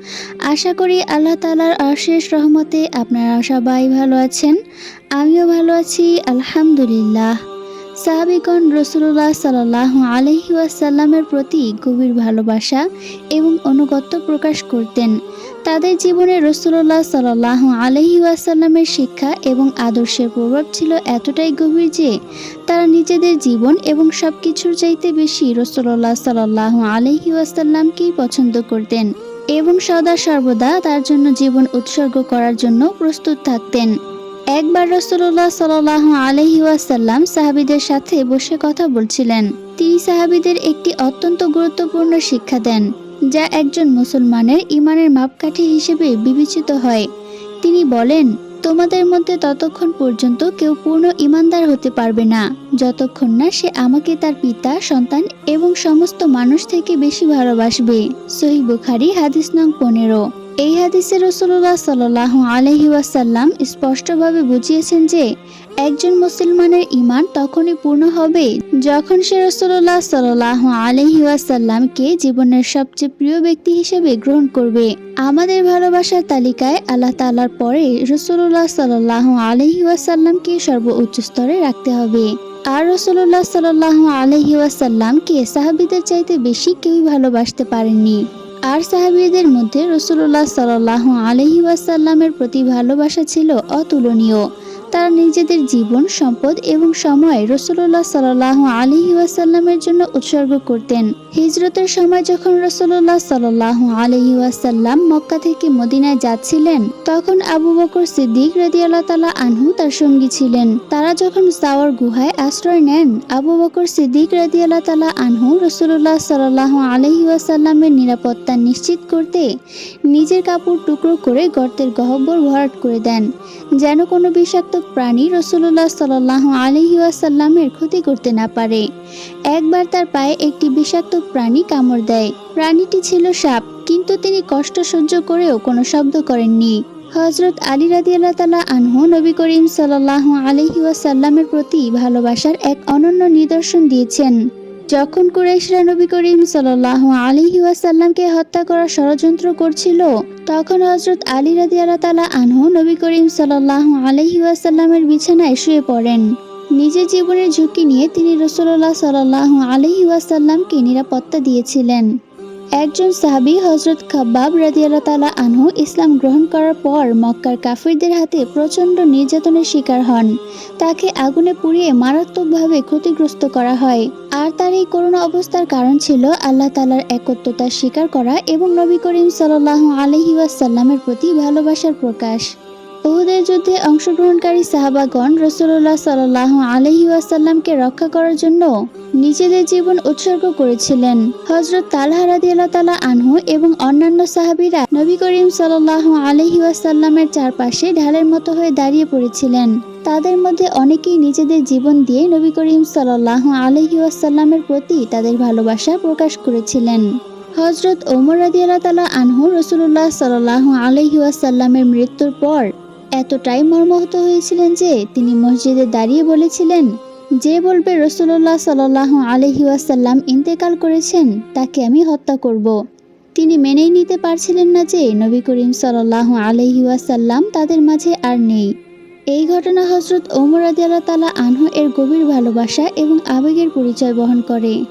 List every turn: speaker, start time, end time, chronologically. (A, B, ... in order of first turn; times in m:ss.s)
0:00.5-0:04.6 A
0:05.2-0:07.3 A
0:08.0-0:12.8 A
0:13.4-0:15.1 A
0:15.7-0:22.1 A
0:22.7-0:33.9 A
0:34.6-0:47.0 A
0:47.6-1:05.3 A
1:05.8-1:34.4 A
1:34.9-1:59.5 A
2:00.1-2:03.3 A
2:03.8-2:08.8 A
2:09.5-2:24.4 A
2:24.9-2:36.2 A
2:36.8-2:42.1 A
2:42.8-3:02.5 A
3:03.1-3:08.7 A
3:09.2-3:27.0 A
3:27.6-3:36.9 A
3:37.4-3:42.7 A
3:43.4-3:48.7 A
3:49.3-3:54.8 A